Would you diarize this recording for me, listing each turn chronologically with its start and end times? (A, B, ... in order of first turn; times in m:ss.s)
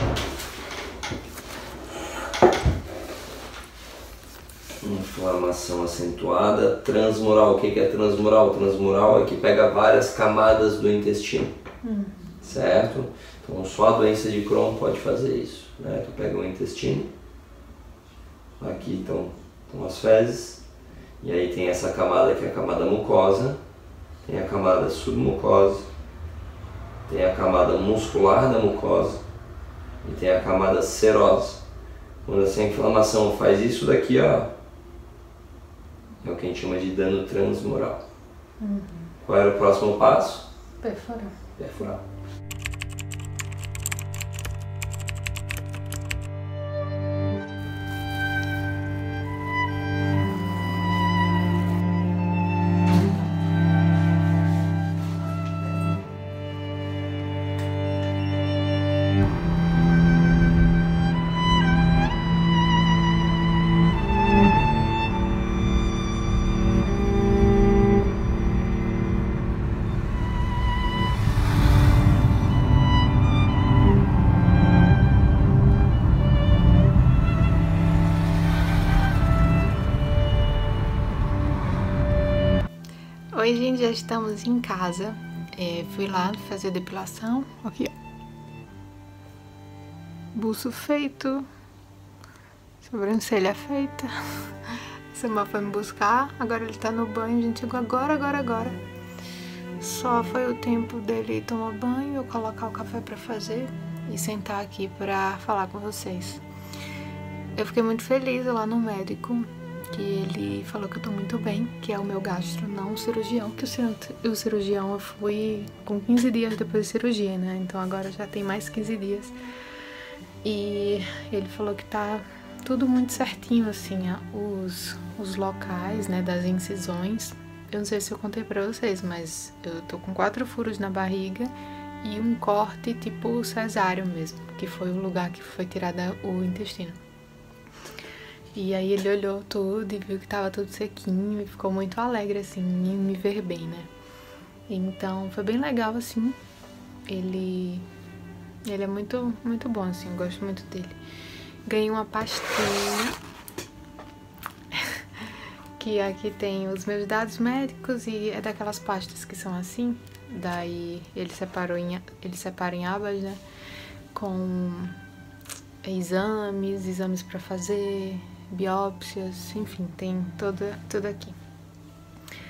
0:04.8-0:11.5 A
0:11.8-0:12.3 B
0:12.4-0:17.1 A
0:18.6-0:20.6 A
0:21.2-0:23.6 A
0:24.3-0:25.9 A
0:27.1-0:29.2 A
0:30.0-0:31.6 A
0:32.2-0:34.5 A
0:36.2-0:38.0 A
0:38.6-0:39.1 B
0:39.2-0:40.5 A
0:40.8-0:41.4 B
0:41.6-0:42.0 A
1:23.3-1:27.9 B
1:30.3-1:31.5 B
1:32.8-1:34.1 B
1:35.1-1:38.8 B
1:39.8-1:46.4 B
1:47.6-1:59.3 B
2:00.4-2:17.0 B
2:18.5-2:23.9 B
2:24.7-2:26.4 B
2:27.1-2:27.8 B
2:28.6-2:31.0 B
2:31.7-2:33.2 B
2:35.8-2:43.4 B
2:44.1-2:45.0 B
2:45.8-2:51.4 B